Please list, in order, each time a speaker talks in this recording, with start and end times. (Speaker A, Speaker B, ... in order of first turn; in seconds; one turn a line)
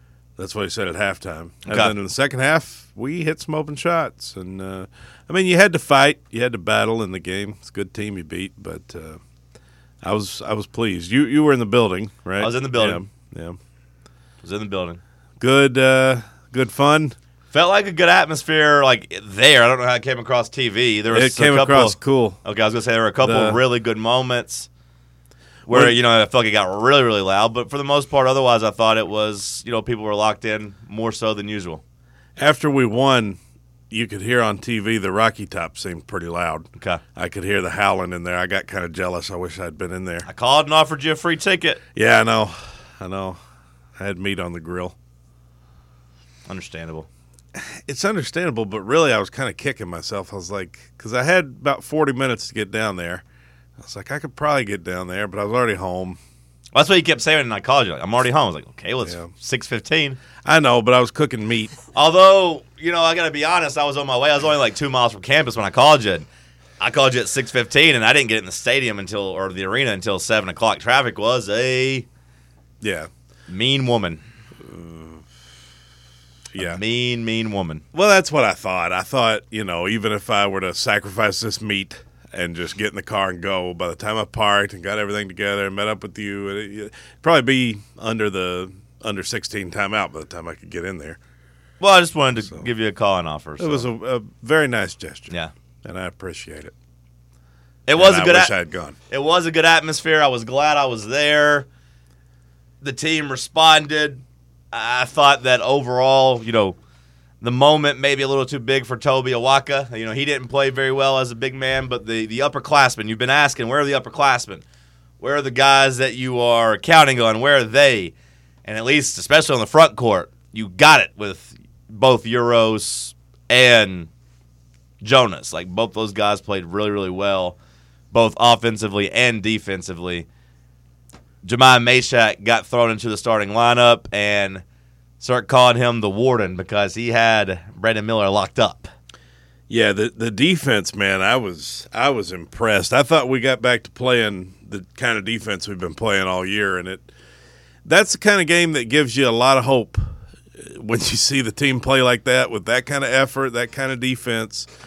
Speaker A: 0.4-9.2
Speaker B: 1.7-1.9
Speaker A: 10.0-13.6
Speaker B: 12.4-13.0
Speaker B: 14.4-15.0
Speaker A: 15.4-17.1
Speaker B: 17.5-24.7
Speaker A: 21.1-22.4
Speaker A: 23.2-23.6
Speaker B: 25.7-31.8
Speaker A: 25.7-26.0
Speaker A: 32.4-33.4
Speaker A: 33.9-40.3
Speaker B: 36.8-37.0
Speaker B: 40.2-41.8
Speaker A: 42.0-43.4
Speaker A: 44.0-45.0
Speaker B: 46.5-47.1
Speaker A: 47.5-53.2
Speaker A: 53.8-56.2
Speaker B: 56.7-60.2
Speaker A: 59.0-59.3
Speaker A: 60.4-61.7
Speaker B: 61.9-66.3
Speaker B: 66.8-72.1
Speaker A: 72.8-73.1
Speaker B: 73.5-74.2
Speaker A: 74.6-75.2
Speaker A: 76.5-76.8
Speaker B: 76.6-77.8
Speaker A: 77.9-91.2
Speaker B: 91.8-93.9
Speaker A: 93.6-96.7
Speaker B: 97.9-98.5
Speaker A: 98.0-99.0
Speaker B: 99.1-101.7
Speaker B: 102.8-106.8
Speaker B: 107.4-114.6
Speaker B: 115.2-118.1
Speaker B: 118.7-124.1
Speaker B: 125.0-127.6
Speaker B: 128.1-130.3
Speaker B: 131.4-134.6
Speaker B: 135.2-138.9
Speaker A: 139.7-147.1
Speaker A: 147.8-150.0
Speaker A: 150.6-154.7